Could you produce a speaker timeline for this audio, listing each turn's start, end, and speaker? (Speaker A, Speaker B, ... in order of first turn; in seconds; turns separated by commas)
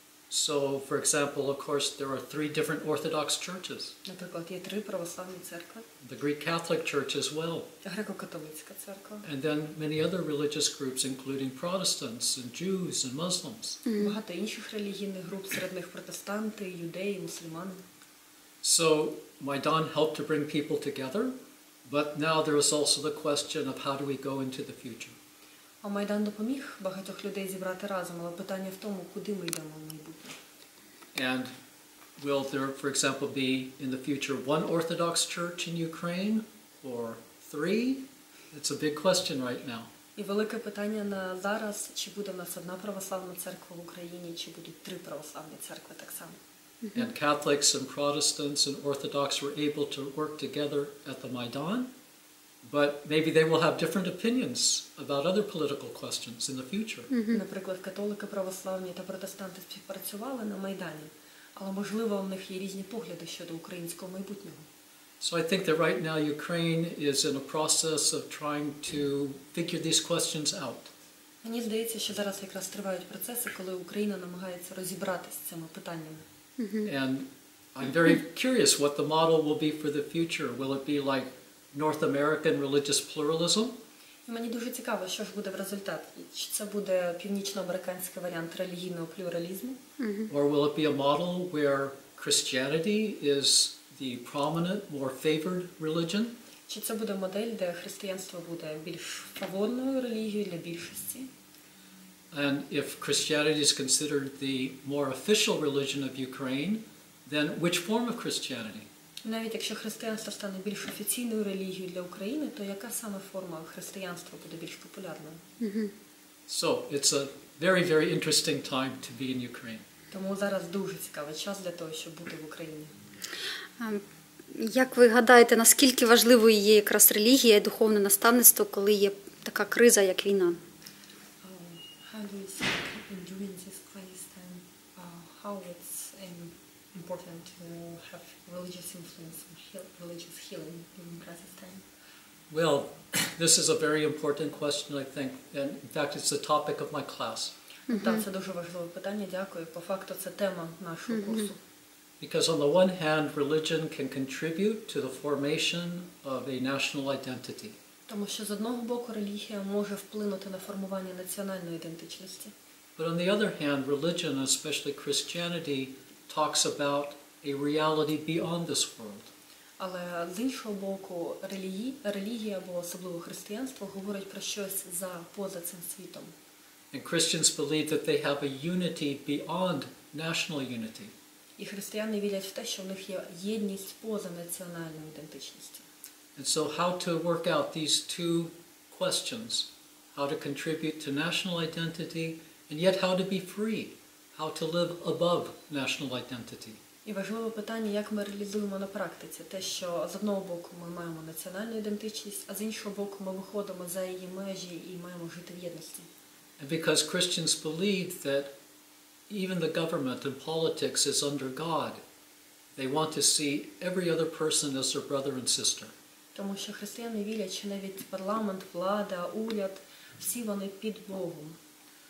Speaker A: 0.3-3.9, Speaker B: 4.0-5.9, Speaker A: 6.0-7.7, Speaker B: 7.8-9.3, Speaker A: 9.2-13.8, Speaker C: 13.8-14.2, Speaker B: 13.9-17.8, Speaker A: 18.6-21.3, Speaker A: 21.9-25.1, Speaker B: 25.8-30.4, Speaker A: 31.1-31.5, Speaker A: 32.2-39.9, Speaker B: 40.1-46.4, Speaker A: 46.9-51.9, Speaker A: 52.6-57.1, Speaker C: 57.1-57.4, Speaker B: 57.3-64.7, Speaker A: 65.2-70.9, Speaker B: 71.4-76.2, Speaker C: 76.6-76.9, Speaker A: 76.8-83.8, Speaker B: 84.2-89.8, Speaker C: 90.0-90.3, Speaker A: 90.3-96.3, Speaker B: 96.7-101.3, Speaker A: 102.3-108.9, Speaker B: 109.2-115.4, Speaker C: 115.6-115.9, Speaker A: 116.5-119.8, Speaker B: 120.1-122.9, Speaker C: 123.8-130.6, Speaker B: 131.4-141.8, Speaker A: 142.5-147.5, Speaker C: 147.9-148.2, Speaker B: 147.9-151.6, Speaker C: 151.1-151.4, Speaker A: 152.2-157.8, Speaker B: 158.1-162.5, Speaker A: 163.0-169.3, Speaker B: 169.8-176.3, Speaker A: 176.9-181.1, Speaker B: 181.6-185.8, Speaker A: 186.3-196.8, Speaker B: 197.0-206.1, Speaker A: 206.6-208.5, Speaker A: 209.3-212.0, Speaker A: 212.8-215.9, Speaker B: 216.3-221.6